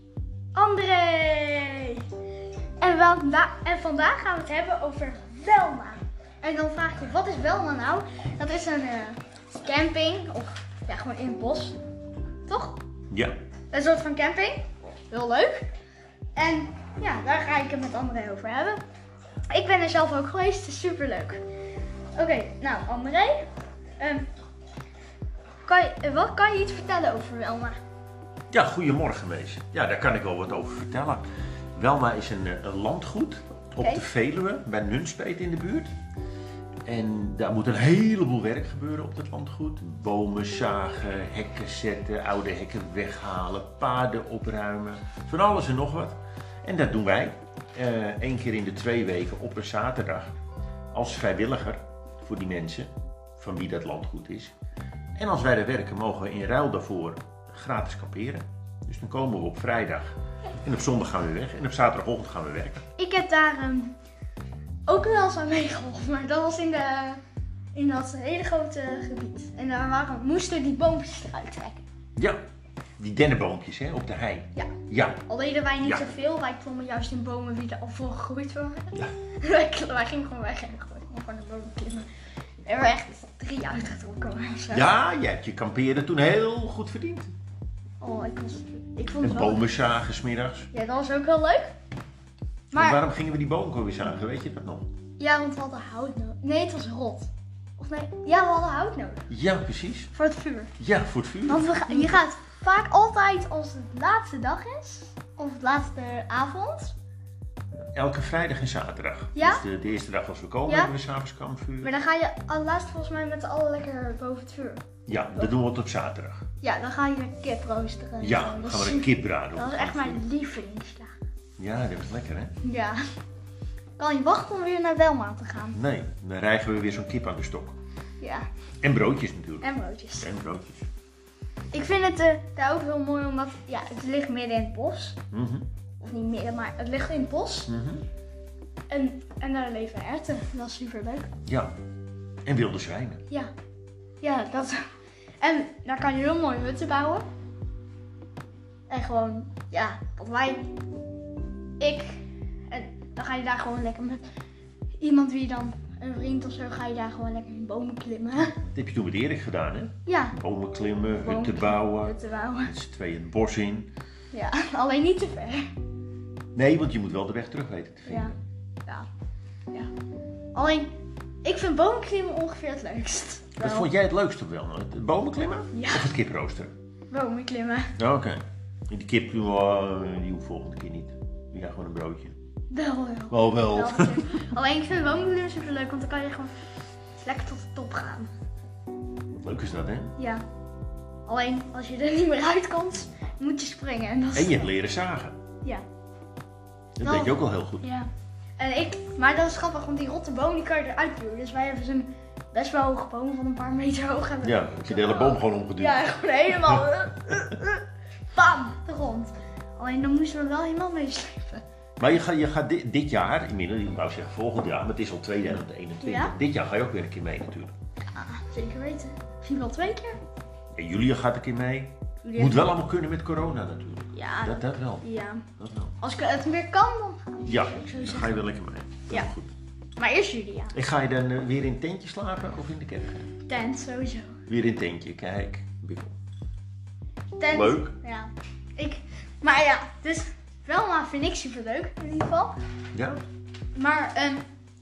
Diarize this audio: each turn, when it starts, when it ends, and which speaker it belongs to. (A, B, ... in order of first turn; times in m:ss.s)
0:00.6-0:02.1 A
0:02.8-0:11.8 A
0:12.5-0:12.8 A
0:13.1-0:13.4 B
0:13.7-0:15.7 A
0:16.4-0:18.8 A
0:19.5-0:21.4 A
0:22.2-0:24.3 A
0:25.6-0:27.8 A
0:28.5-0:35.9 B
0:36.9-0:50.3 B
0:50.9-0:54.5 B
0:55.2-1:02.8 B
1:03.0-1:03.9 A
1:04.9-1:07.2 A
1:07.7-1:11.8 A
1:13.0-1:15.2 B
1:15.3-1:22.1 A
1:15.8-1:16.1 B
1:22.6-1:24.9 A
1:24.7-1:27.3 B
1:28.0-1:29.7 A
1:29.2-1:30.7 B
1:30.7-1:31.7 A
1:32.7-1:33.0 A
1:32.7-1:34.9 B
1:35.2-1:39.3 A
1:39.3-1:40.1 B
1:40.2-1:40.7 A
1:40.8-1:42.2 B
1:41.5-1:47.0 A
1:48.0-1:51.9 B
1:49.4-1:49.6 A
1:50.7-1:50.9 A
1:51.8-1:54.8 A
1:55.1-1:56.4 B
1:56.6-2:01.1 A
1:58.2-2:00.2 B
2:01.6-2:02.6 B
2:02.6-2:03.0 A
2:04.0-2:05.8 A
2:05.7-2:07.8 B
2:08.2-2:08.5 A
2:08.8-2:10.9 B
2:09.6-2:10.3 A
2:11.7-2:15.2 A
2:15.3-2:15.7 B
2:16.0-2:17.7 A
2:17.7-2:18.1 B
2:18.9-2:21.3 A
2:21.5-2:21.8 B
2:22.4-2:23.2 B
2:24.2-2:24.8 A
2:25.4-2:27.2 A
2:28.9-2:30.7 A
2:31.8-2:34.2 A
2:35.0-2:38.6 A
2:38.7-2:43.9 B
2:40.1-2:40.4 A
2:41.2-2:42.7 A
2:44.3-2:45.7 A
2:46.6-2:48.4 B
2:48.1-2:48.3 A
2:50.5-2:53.9 A
2:53.6-2:56.7 B
2:55.7-2:56.1 A
2:57.1-2:58.0 A
2:58.0-3:02.4 B
3:02.7-3:06.6 A
3:03.3-3:04.3 B
3:07.2-3:08.3 A
3:09.3-3:10.2 B
3:10.2-3:10.4 A
3:11.3-3:14.7 A
3:14.4-3:15.4 B
3:17.0-3:17.8 B
3:17.0-3:31.6 A
3:24.4-3:26.1 B
3:32.0-3:37.7 B
3:36.0-3:36.3 A
3:38.1-3:40.2 A
3:40.8-3:45.0 B
3:42.2-3:42.7 A
3:44.1-3:45.4 A
3:45.6-3:46.0 B
3:46.0-3:48.5 A
3:47.4-3:49.5 B
3:50.0-3:50.8 A
3:50.7-3:53.3 B
3:53.5-3:54.4 A
3:54.5-3:56.1 B
3:57.4-4:02.6 A
3:57.5-3:58.0 B
4:02.9-4:03.2 B
4:03.8-4:04.4 A